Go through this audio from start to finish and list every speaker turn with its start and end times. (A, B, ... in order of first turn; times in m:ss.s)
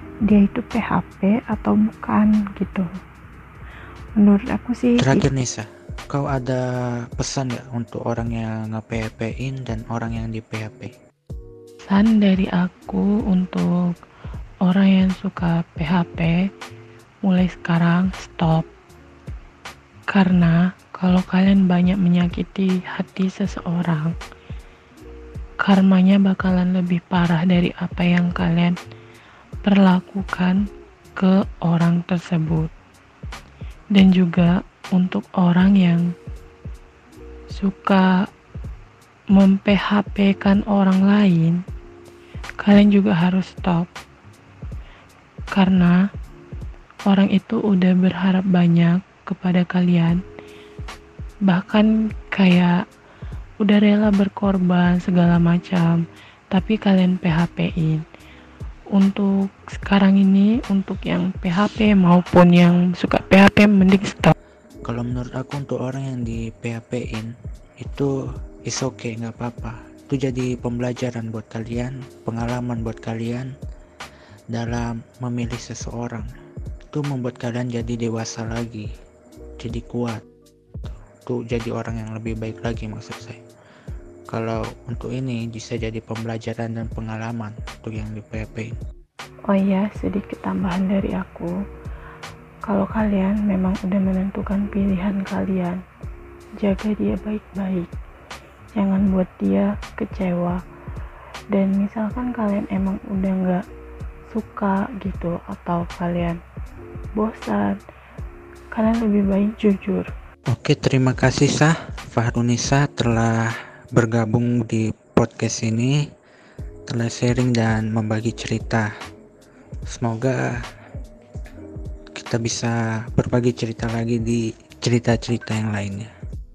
0:00.3-0:02.9 A
0:04.2-0:05.3 A
0:05.0-0:06.6 B
0:07.2-0:10.9 B
0:11.9-0:13.9 A
0:14.6-0:16.4 A
0:17.2-0:18.7 A
0:20.1-0:24.1 A
0:25.6-0:28.8 A
0:29.6-0:30.6 A
0:31.2-0:32.7 A
0:33.9-0:36.1 A
0:37.6-0:38.2 A
0:39.3-0:41.6 A
0:42.6-0:43.9 A
0:45.5-0:46.0 A
0:47.1-0:50.2 A
0:51.5-0:52.8 A
0:53.6-0:58.0 A
0:58.9-1:04.3 A
1:04.8-1:08.1 B
1:08.7-1:13.5 B
1:14.5-1:16.3 B
1:16.9-1:18.9 B
1:19.6-1:20.2 B
1:21.2-1:23.4 B
1:24.3-1:28.8 B
1:29.5-1:31.5 A
1:32.6-1:35.8 A
1:36.6-1:37.9 A
1:38.7-1:40.6 A
1:41.5-1:43.6 A
1:44.3-1:46.4 A
1:47.2-1:47.8 A
1:48.7-1:50.1 A
1:50.5-1:56.0 B
1:56.9-1:58.9 B
1:59.9-2:00.5 B
2:02.2-2:06.1 B